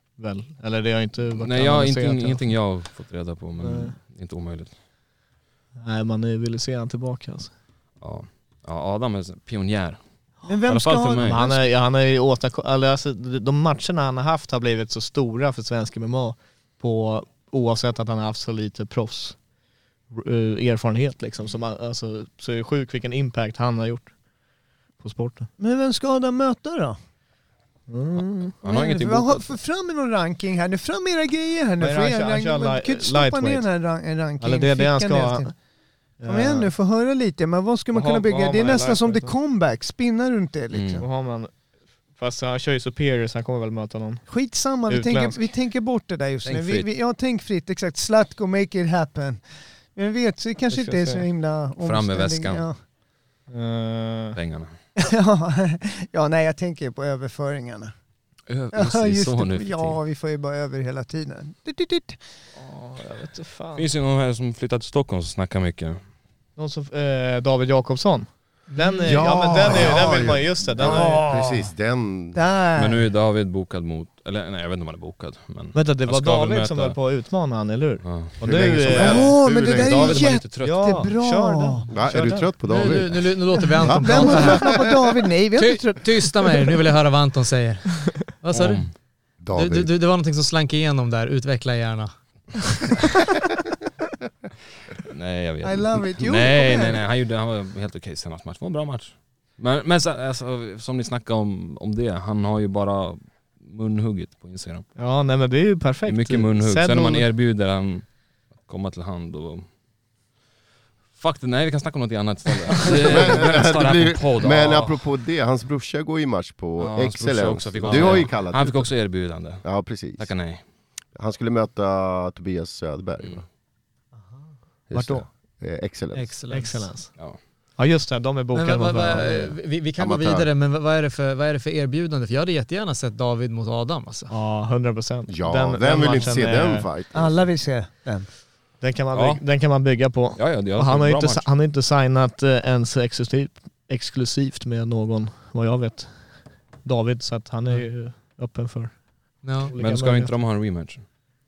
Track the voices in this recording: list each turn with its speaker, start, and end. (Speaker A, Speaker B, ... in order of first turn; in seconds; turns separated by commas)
Speaker A: 0.2-2.4, Speaker B: 1.4-4.7, Speaker A: 3.6-4.0, Speaker A: 5.8-7.5, Speaker B: 8.0-10.0, Speaker C: 10.4-11.7, Speaker B: 10.7-11.4, Speaker A: 11.2-19.4, Speaker A: 20.1-24.1, Speaker A: 25.0-25.5, Speaker C: 25.6-27.0, Speaker A: 27.9-28.6, Speaker B: 28.6-29.6, Speaker C: 28.6-35.5, Speaker A: 31.8-33.7, Speaker A: 34.4-35.5, Speaker A: 36.2-36.7, Speaker C: 36.3-41.1, Speaker A: 37.9-39.3, Speaker B: 40.7-41.0, Speaker A: 41.0-41.5, Speaker A: 42.2-44.3, Speaker C: 44.3-49.4, Speaker A: 44.9-45.4, Speaker B: 46.5-46.9, Speaker C: 50.0-52.8, Speaker A: 50.7-51.3, Speaker B: 51.8-52.7, Speaker A: 53.5-54.4, Speaker B: 54.4-54.7, Speaker C: 55.0-57.9, Speaker B: 58.5-60.0, Speaker C: 58.7-62.2, Speaker A: 62.6-63.9, Speaker B: 63.8-66.0, Speaker A: 66.6-71.3, Speaker D: 68.7-69.3, Speaker E: 69.0-72.4, Speaker C: 69.7-71.6, Speaker C: 72.3-73.1, Speaker B: 72.8-77.0, Speaker A: 75.7-79.3, Speaker B: 78.0-78.4, Speaker E: 78.4-80.3, Speaker B: 78.9-81.0, Speaker C: 78.9-81.8, Speaker A: 80.6-82.5, Speaker E: 81.9-84.8, Speaker D: 82.7-84.9, Speaker C: 83.7-86.6, Speaker D: 85.6-88.9, Speaker B: 88.5-88.9, Speaker E: 89.4-89.9, Speaker D: 89.5-92.9, Speaker B: 95.0-104.9, Speaker C: 95.6-97.0, Speaker A: 105.0-107.3, Speaker B: 106.1-108.0, Speaker B: 108.6-109.7, Speaker B: 111.2-115.0, Speaker E: 112.8-118.9, Speaker B: 116.8-120.6, Speaker A: 117.9-118.2, Speaker E: 119.6-120.3, Speaker E: 121.2-123.4, Speaker E: 124.9-126.4, Speaker A: 124.9-125.2, Speaker D: 126.1-127.0, Speaker A: 126.5-127.1, Speaker A: 127.8-129.6, Speaker D: 128.5-134.3, Speaker E: 130.0-130.5, Speaker A: 134.3-136.9, Speaker E: 135.3-137.4, Speaker C: 137.1-138.3, Speaker A: 138.8-146.3, Speaker B: 139.1-139.4, Speaker B: 140.3-141.5, Speaker A: 146.8-150.3, Speaker D: 149.4-149.7, Speaker B: 149.8-151.1